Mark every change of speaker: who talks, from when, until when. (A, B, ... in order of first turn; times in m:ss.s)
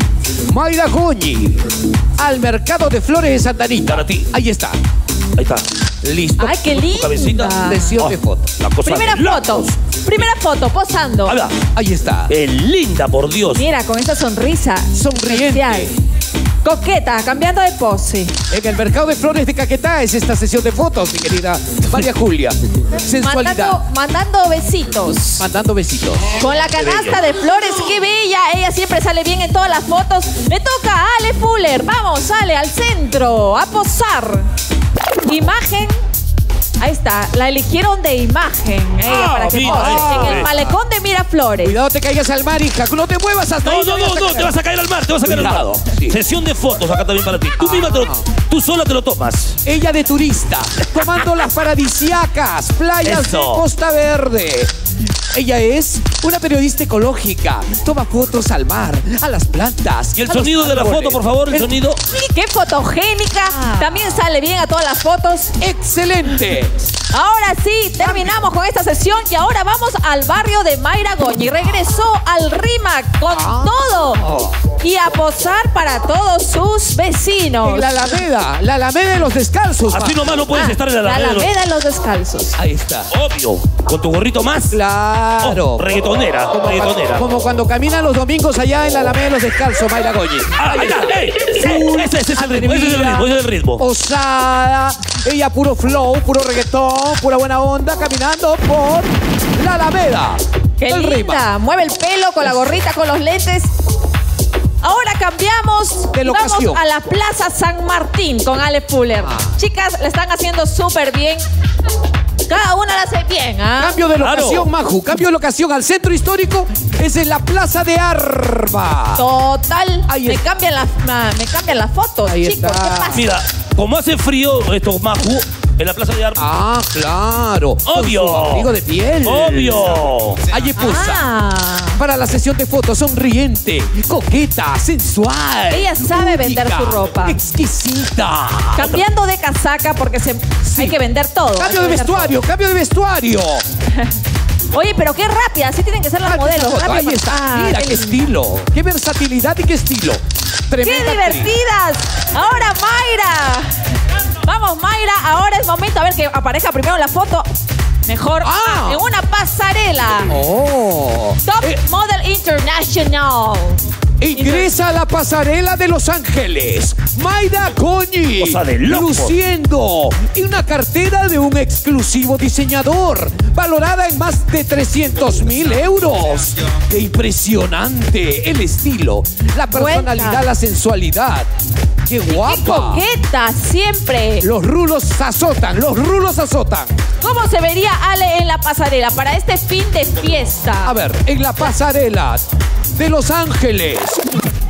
0:00.5-0:01.6 A
0:02.2-0:04.8 A
0:03.8-0:04.3 B
0:05.4-0:05.6 B
0:06.0-0:06.7 A
0:06.4-0:07.9 C
0:06.7-0:10.3 B
0:07.4-0:08.5 A
0:08.8-0:11.4 C
0:11.2-0:11.5 B
0:11.7-0:12.3 A
0:12.3-0:13.6 B
0:13.5-0:15.9 C
0:14.9-0:15.9 A
0:16.6-0:18.3 C
0:18.5-0:23.8 A
0:23.2-0:25.4 C
0:25.4-0:26.3 A
0:26.3-0:34.4 C
0:26.8-0:27.2 B
0:35.2-0:35.9 C
0:36.8-0:41.7 C
0:39.0-0:40.5 B
0:39.6-0:40.8 A
0:41.6-0:44.6 A
0:43.6-0:49.6 B
0:45.2-0:46.2 A
0:47.6-0:48.2 A
0:49.6-0:54.7 A
0:53.0-0:53.6 B
0:55.3-1:01.7 A
1:00.1-1:02.0 B
1:02.3-1:05.5 C
1:03.5-1:04.2 A
1:05.6-1:06.7 A
1:07.1-1:14.2 C
1:08.0-1:08.3 A
1:13.3-1:14.5 A
1:14.8-1:18.0 C
1:17.6-1:20.3 A
1:19.9-1:21.5 B
1:20.5-1:22.6 C
1:22.6-1:23.1 A
1:23.1-1:24.8 B
1:24.7-1:25.9 A
1:25.4-1:27.3 B
1:26.5-1:41.5 A
1:30.6-1:33.8 B
1:40.8-1:43.7 C
1:44.8-1:51.4 C
1:46.1-1:46.8 A
1:49.2-1:49.5 A
1:52.4-1:54.0 C
1:53.8-1:59.2 A
1:54.2-1:54.7 B
1:59.2-2:03.3 C
2:00.1-2:00.4 A
2:02.2-2:03.2 A
2:03.1-2:06.4 B
2:06.4-2:11.2 A
2:07.8-2:08.7 B
2:09.2-2:10.4 B
2:10.8-2:12.0 C
2:12.0-2:19.0 A
2:15.7-2:17.4 C
2:18.8-2:22.3 C
2:21.5-2:23.6 A
2:24.7-2:28.2 C
2:26.2-2:31.5 A
2:30.8-2:33.7 C
2:34.4-2:37.5 C
2:38.0-2:40.3 C
2:38.4-2:39.0 A
2:40.3-2:41.8 A
2:41.4-2:43.8 C
2:44.2-3:01.5 A
2:44.3-2:44.7 C
2:48.4-2:49.3 B
2:59.7-3:00.4 C
3:02.1-3:03.0 A
3:02.3-3:04.4 C
3:04.4-3:07.0 A
3:07.2-3:10.9 C
3:10.8-3:12.4 A
3:13.0-3:14.2 A